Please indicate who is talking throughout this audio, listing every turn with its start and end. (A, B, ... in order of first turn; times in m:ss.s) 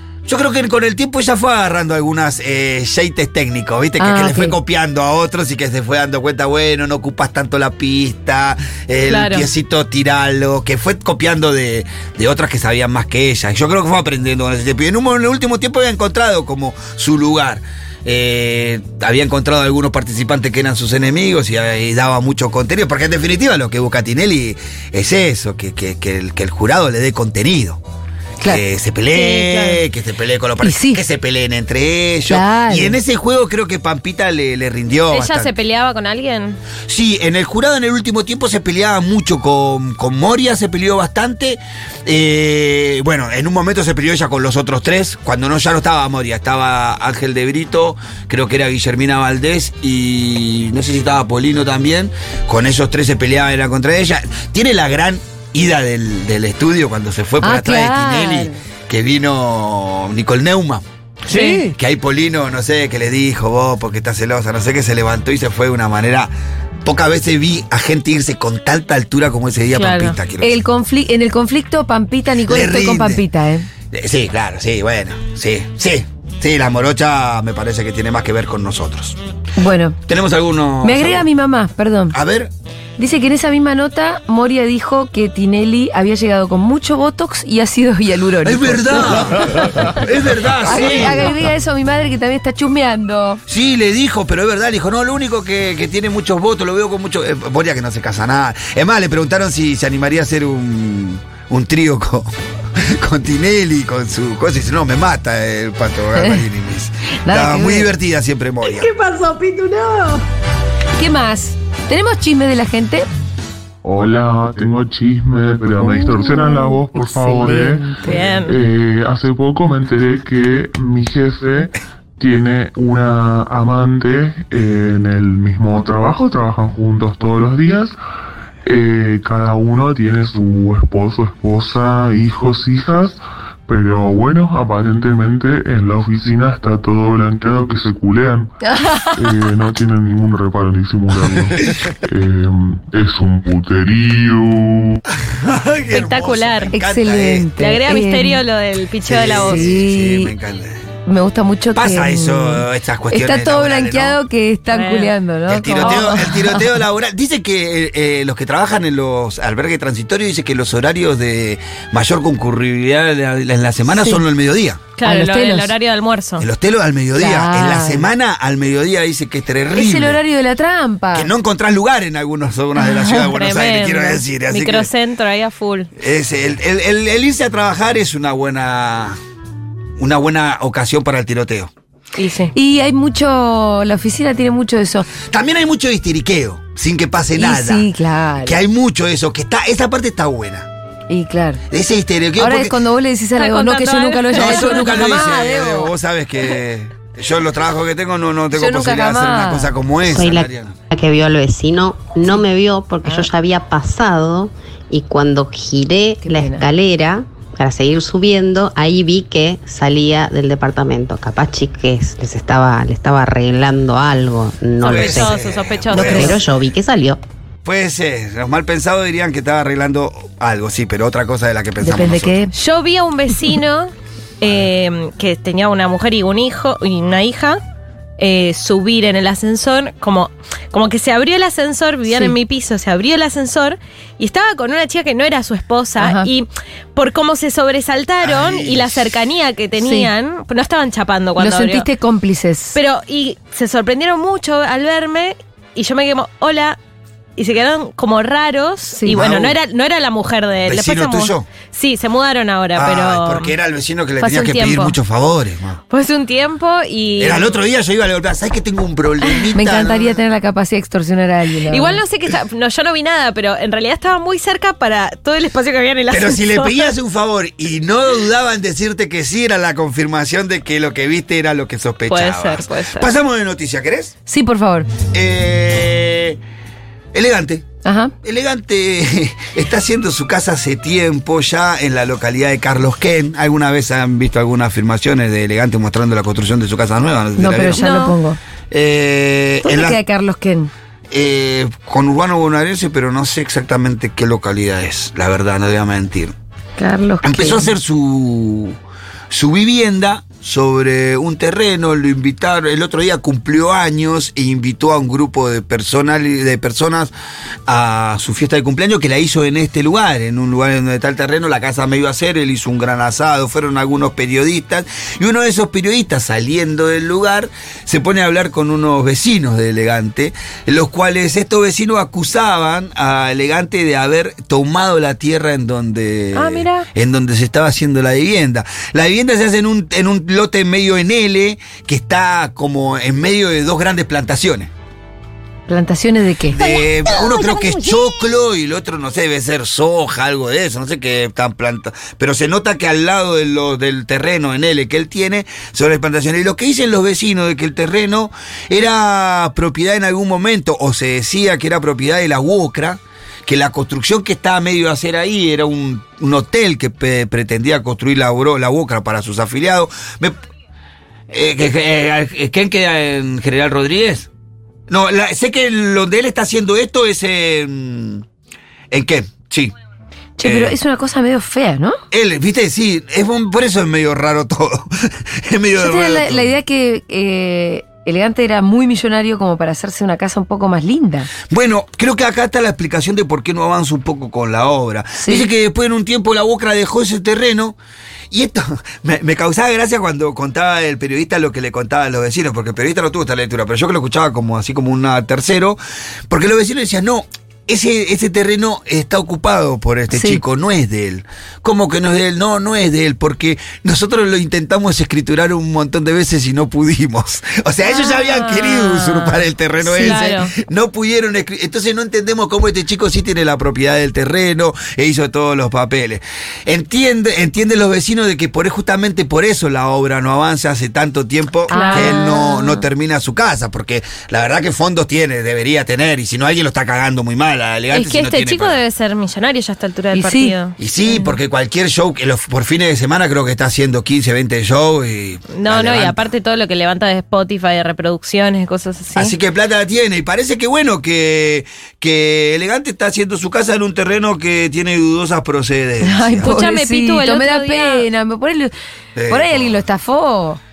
0:00.3-0:27.8 A
0:04.0-0:04.6 B
0:09.1-0:09.5 C
0:28.4-0:35.5 A
0:29.1-0:29.8 C
0:30.6-0:31.0 B
0:32.3-0:33.0 B
0:35.1-0:36.6 C
0:36.9-1:00.8 A
0:57.4-0:58.6 B
1:01.3-1:01.6 C
1:01.4-1:06.3 A
1:06.8-1:10.6 A
1:09.7-1:10.2 C
1:10.4-1:13.7 B
1:12.5-1:13.2 A
1:13.9-1:19.2 A
1:19.6-1:20.0 B
1:20.1-1:21.3 A
1:20.8-1:22.2 B
1:22.1-1:22.5 A
1:23.0-1:29.9 B
1:28.4-1:31.3 A
1:30.6-1:33.4 B
1:33.5-1:48.9 A
1:47.3-1:47.9 B
1:51.0-1:53.1 B
1:53.8-2:08.0 D
1:56.2-1:58.2 B
1:58.0-1:58.6 C
2:08.6-2:18.6 D
2:18.6-2:19.1 B
2:19.1-2:25.0 D
2:25.2-2:27.5 A
2:25.9-2:26.7 C
2:26.7-2:28.4 B
2:27.6-2:29.7 C
2:29.0-2:30.8 A
2:29.4-2:30.3 B
2:31.1-2:36.6 B
2:31.8-2:34.2 A
2:34.7-2:35.2 C
2:35.5-2:44.8 A
2:35.8-2:36.2 C
2:45.0-2:46.5 C
2:45.0-2:45.7 B
2:46.4-2:50.2 A
2:47.2-2:48.1 B
2:49.7-2:51.3 B
2:51.1-2:54.9 A
2:52.8-2:55.9 C
2:56.0-2:59.2 A
3:00.0-3:01.7 A
3:02.2-3:02.5 C
3:02.5-3:05.1 B
3:05.2-3:07.9 A
3:07.4-3:08.6 B
3:08.4-3:10.7 A
3:11.1-3:11.6 B
3:11.7-3:12.7 A
3:12.4-3:15.9 B
3:13.4-3:15.3 C
3:14.3-3:20.7 A
3:18.6-3:19.7 B
3:20.1-3:37.2 E
3:23.0-3:23.3 B
3:26.2-3:26.6 B
3:34.8-3:36.4 C
3:34.8-3:36.4 A
3:36.0-3:36.3 B
3:37.6-3:42.4 A
3:41.8-3:42.5 B
3:42.5-3:47.6 C
3:48.2-4:01.9 C
3:52.1-3:52.3 B
3:56.0-3:56.3 B
3:58.2-3:59.1 A
3:59.8-4:00.1 B
4:01.4-4:02.8 B
4:02.7-4:06.8 C
4:07.4-4:13.5 C
4:09.1-4:09.6 A
4:10.7-4:11.5 A
4:12.8-4:15.8 A
4:14.2-4:15.0 C
4:15.9-4:17.5 C
4:17.2-4:20.2 A
4:19.6-4:22.0 B
4:21.7-4:26.9 C
4:26.1-4:34.1 A
4:32.1-4:33.1 C
4:34.3-4:34.9 B
4:35.1-4:36.4 A
4:37.1-4:37.7 A
4:37.8-4:38.1 B
4:38.2-4:48.0 A
4:47.4-4:48.4 B
4:47.8-4:48.1 C
4:48.7-4:50.0 A
4:49.6-4:50.7 B
4:51.1-4:56.3 A
4:56.8-4:57.7 B
4:57.2-4:58.8 A
4:59.3-5:07.1 A
5:07.7-5:34.7 A
5:26.3-5:26.8 C
5:35.7-5:36.6 B
5:36.5-6:00.4 A
6:01.3-6:04.3 A
6:04.9-6:08.2 A
6:08.9-6:09.7 A
6:10.4-6:12.0 B
6:10.4-6:10.8 A
6:12.1-6:16.5 A
6:15.8-6:21.3 B
6:21.5-6:27.8 A
6:25.2-6:25.5 B
6:28.3-7:08.8 A
6:40.1-6:40.4 B
6:47.8-6:50.5 C
7:01.7-7:02.8 B
7:01.7-7:02.3 C
7:07.9-7:10.8 C
7:10.1-7:10.6 B
7:10.8-7:16.2 A
7:11.1-7:11.3 B
7:15.5-7:19.4 C
7:19.2-7:26.5 A
7:26.0-7:28.7 B
7:26.4-7:28.1 C
7:29.2-7:29.8 A
7:29.3-7:30.6 B